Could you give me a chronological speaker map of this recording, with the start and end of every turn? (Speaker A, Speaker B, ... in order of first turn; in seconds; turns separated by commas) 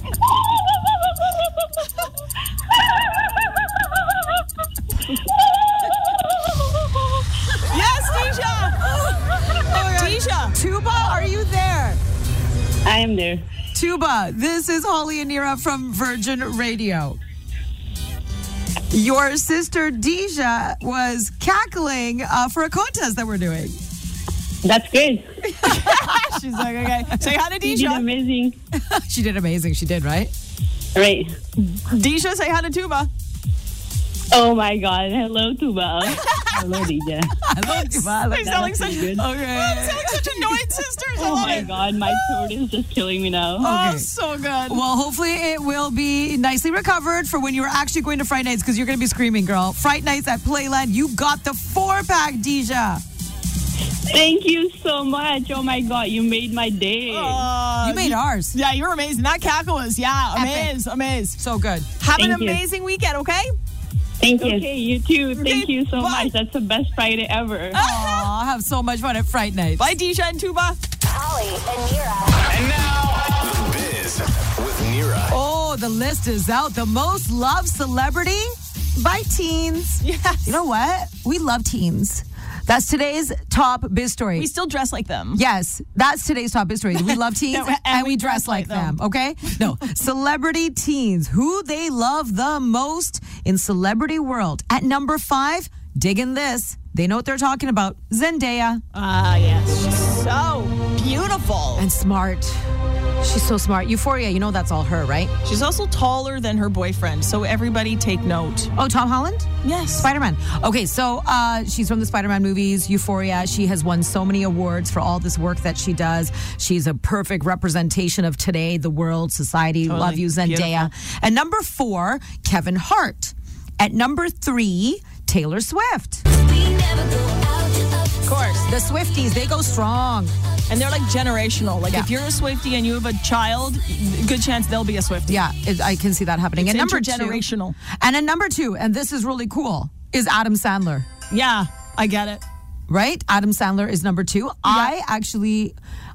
Speaker A: 7.6-8.8, Speaker B: 9.1-12.0, Speaker A: 9.8-10.5, Speaker C: 12.8-13.4, Speaker B: 13.7-17.2, Speaker B: 18.9-23.8, Speaker C: 24.6-25.3, Speaker A: 25.6-28.1, Speaker B: 25.6-26.1, Speaker C: 27.6-28.6, Speaker B: 28.7-30.3, Speaker C: 30.9-31.3, Speaker A: 31.6-33.1, Speaker C: 34.3-37.4, Speaker A: 36.1-36.5, Speaker B: 37.4-41.7, Speaker A: 37.6-41.7, Speaker C: 38.4-39.2, Speaker C: 41.2-43.7, Speaker B: 43.6-44.1, Speaker A: 43.6-44.8, Speaker B: 44.7-53.0, Speaker C: 54.1-57.5, Speaker A: 57.1-61.4, Speaker B: 57.8-58.5, Speaker B: 60.4-60.7, Speaker B: 61.4-61.9, Speaker A: 62.0-63.5, Speaker C: 62.2-62.6, Speaker C: 64.2-67.8, Speaker A: 64.4-64.8, Speaker A: 65.3-66.3, Speaker A: 67.7-68.3, Speaker B: 67.7-69.9, Speaker A: 69.8-70.8, Speaker D: 71.0-72.4, Speaker E: 72.5-75.4, Speaker B: 75.3-84.5, Speaker A: 80.0-80.6, Speaker A: 84.4-85.4, Speaker B: 85.4-98.8, Speaker A: 87.0-89.0, Speaker A: 98.9-101.9, Speaker B: 101.8-102.7, Speaker B: 103.2-105.3, Speaker A: 105.4-108.7, Speaker B: 108.8-126.2, Speaker A: 109.6-110.1, Speaker A: 119.9-120.9, Speaker D: 126.3-128.1, Speaker A: 128.2-128.7, Speaker B: 128.6-130.3, Speaker A: 130.7-135.4, Speaker B: 135.3-141.1, Speaker A: 136.6-137.8, Speaker A: 141.3-142.4, Speaker B: 142.9-145.8, Speaker A: 144.7-144.9